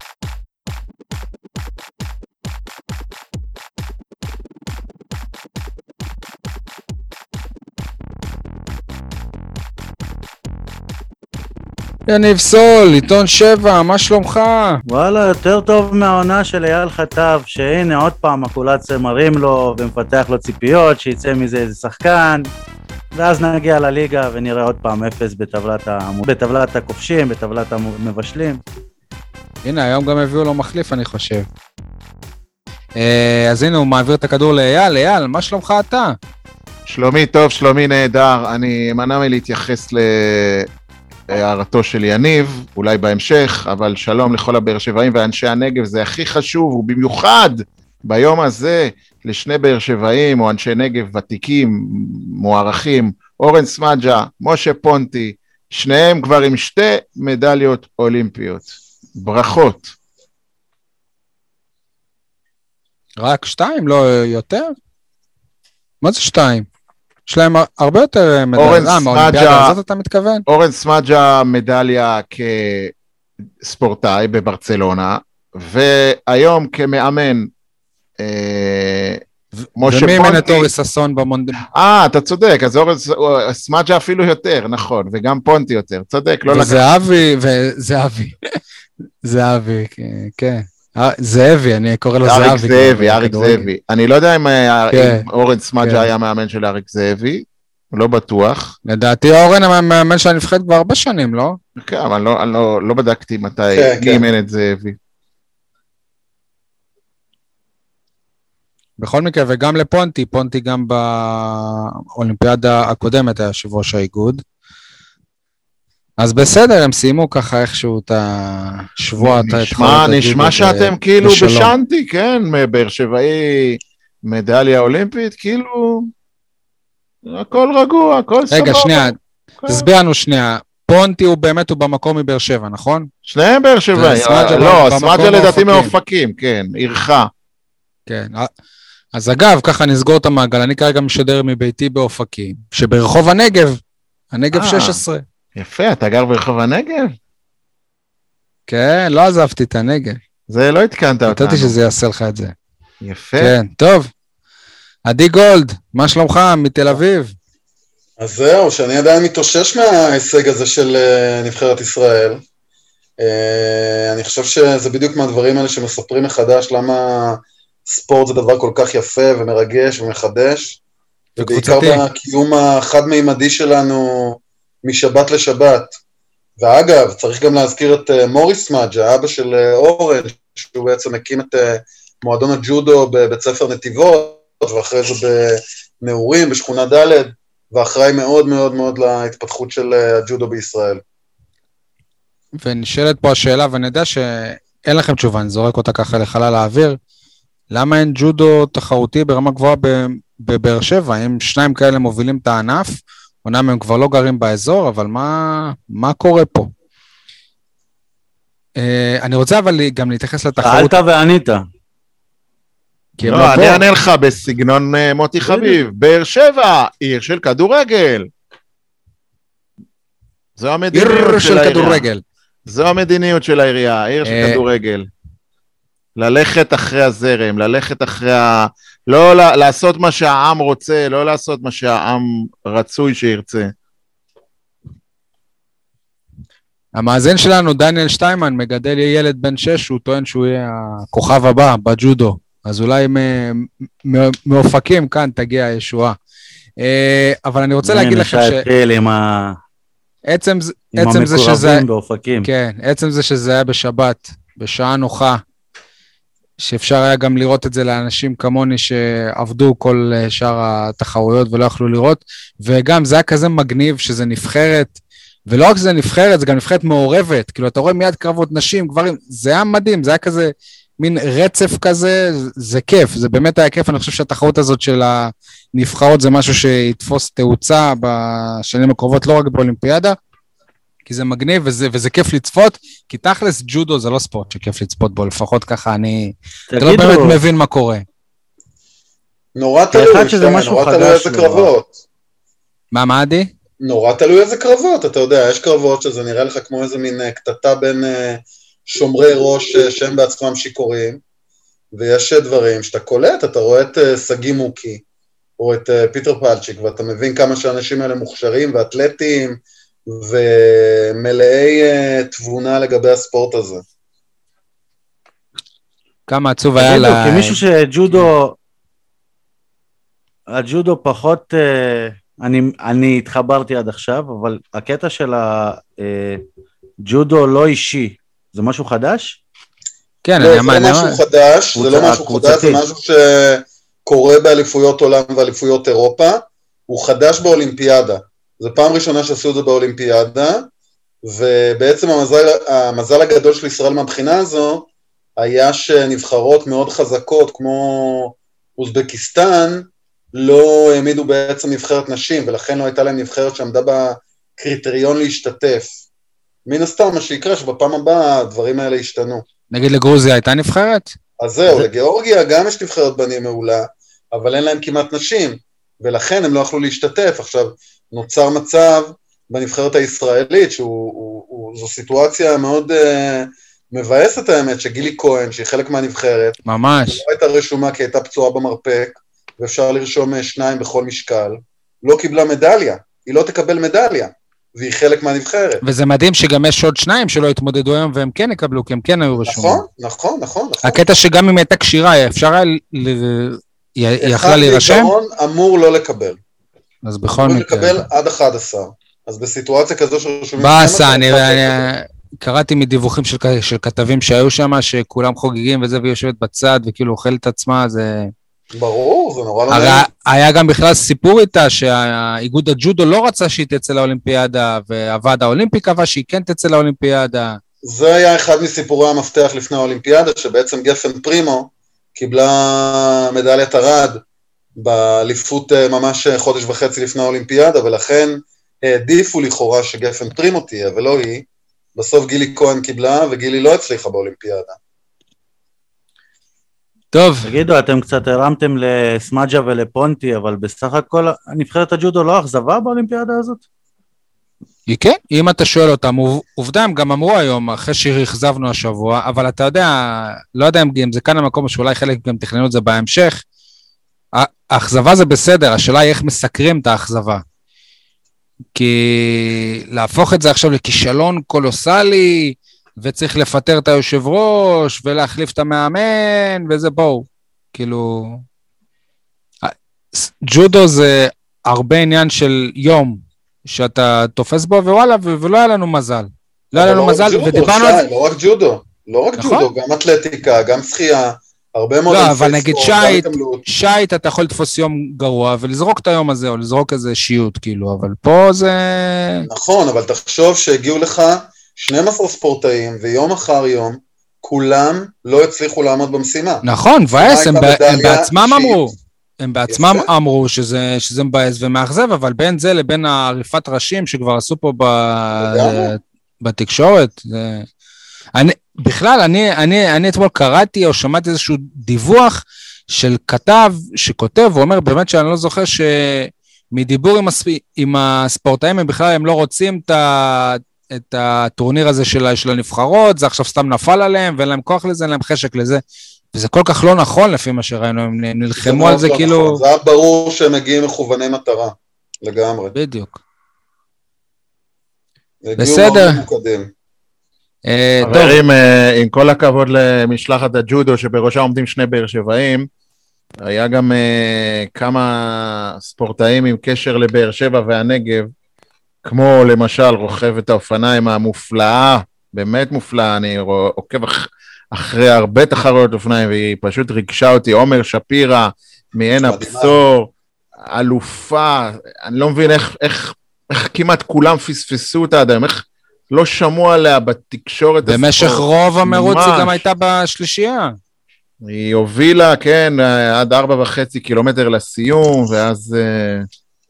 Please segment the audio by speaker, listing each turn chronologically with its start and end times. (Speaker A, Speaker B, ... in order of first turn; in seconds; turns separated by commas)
Speaker A: 12.1-14.8, Speaker B: 14.9-22.5, Speaker B: 23.1-28.6, Speaker A: 29.6-31.4, Speaker A: 33.0-36.1, Speaker C: 36.9-40.7, Speaker C: 41.3-59.9, Speaker A: 63.2-64.7, Speaker A: 66.0-66.7, Speaker A: 67.3-70.4, Speaker C: 68.6-69.7, Speaker C: 70.5-72.9, Speaker C: 73.6-77.5, Speaker C: 78.2-79.2, Speaker A: 79.6-81.6, Speaker C: 79.8-80.7, Speaker C: 81.7-86.8, Speaker A: 86.5-88.6, Speaker A: 89.2-93.7, Speaker C: 92.2-98.7, Speaker A: 94.9-95.2, Speaker A: 95.8-96.1, Speaker A: 98.8-101.6, Speaker C: 101.8-105.0, Speaker D: 103.7-104.2, Speaker A: 109.0-114.4, Speaker A: 116.2-121.7, Speaker C: 119.2-126.1, Speaker C: 127.2-129.8, Speaker A: 128.5-129.2, Speaker A: 129.7-133.1, Speaker C: 133.2-137.3, Speaker A: 133.9-135.9, Speaker A: 138.1-138.5, Speaker A: 139.1-143.8, Speaker A: 144.3-145.2, Speaker C: 144.5-145.0, Speaker C: 145.6-147.1, Speaker A: 148.7-150.2, Speaker C: 150.5-151.8, Speaker A: 151.3-152.5, Speaker C: 153.0-153.5, Speaker A: 153.4-154.1, Speaker A: 155.1-157.3, Speaker D: 158.2-162.4, Speaker D: 163.2-170.8, Speaker D: 171.3-176.0, Speaker A: 171.4-172.0, Speaker D: 176.6-191.0, Speaker A: 192.6-197.0, Speaker A: 197.7-206.7, Speaker A: 208.8-211.0, Speaker B: 210.6-211.6, Speaker A: 213.2-213.8, Speaker C: 213.2-218.3, Speaker B: 215.4-215.8, Speaker C: 220.6-222.1, Speaker A: 220.9-222.2, Speaker C: 222.7-225.1, Speaker A: 224.2-224.6, Speaker C: 226.2-233.7, Speaker A: 236.9-246.2, Speaker A: 246.8-248.6, Speaker B: 247.8-249.6, Speaker A: 250.3-251.8, Speaker B: 251.0-252.5, Speaker A: 252.4-255.4, Speaker A: 256.6-280.2, Speaker A: 281.1-288.0, Speaker B: 286.7-287.4, Speaker D: 289.5-292.0, Speaker B: 289.9-291.7, Speaker A: 292.9-293.5, Speaker D: 293.8-301.2, Speaker D: 301.9-305.0, Speaker D: 305.6-313.8, Speaker A: 316.3-317.6, Speaker B: 316.8-318.5, Speaker B: 320.5-326.4, Speaker B: 327.0-329.4, Speaker A: 330.2-331.2, Speaker D: 330.4-340.7, Speaker B: 331.7-332.8, Speaker D: 341.2-356.0, Speaker D: 356.6-359.4, Speaker A: 359.7-361.1, Speaker D: 361.4-376.6, Speaker A: 376.6-377.2, Speaker D: 377.1-385.8, Speaker A: 385.8-389.8, Speaker D: 389.4-391.0, Speaker A: 390.8-395.1, Speaker D: 394.2-396.4, Speaker A: 397.0-398.0, Speaker D: 397.4-401.9, Speaker A: 400.6-408.3, Speaker D: 408.7-410.0, Speaker A: 409.7-417.6, Speaker D: 417.8-424.2, Speaker D: 424.8-434.8, Speaker A: 437.1-437.5, Speaker B: 437.4-443.6, Speaker A: 444.9-453.4, Speaker A: 454.3-457.4, Speaker A: 458.7-468.4, Speaker A: 469.6-478.0, Speaker D: 476.7-483.6, Speaker A: 479.4-479.7, Speaker A: 482.1-489.5, Speaker D: 489.5-496.6, Speaker A: 496.6-507.7, Speaker D: 497.1-498.8, Speaker D: 499.7-500.1, Speaker D: 505.5-505.9, Speaker A: 508.3-525.8, Speaker A: 526.3-529.6, Speaker D: 528.6-532.7, Speaker A: 532.7-533.2, Speaker D: 535.4-536.7, Speaker A: 535.6-536.2, Speaker A: 537.7-538.4, Speaker C: 538.0-542.7, Speaker C: 543.4-548.3, Speaker C: 549.0-560.1, Speaker D: 559.1-559.8, Speaker C: 560.6-569.6, Speaker A: 567.9-570.8, Speaker C: 571.4-576.3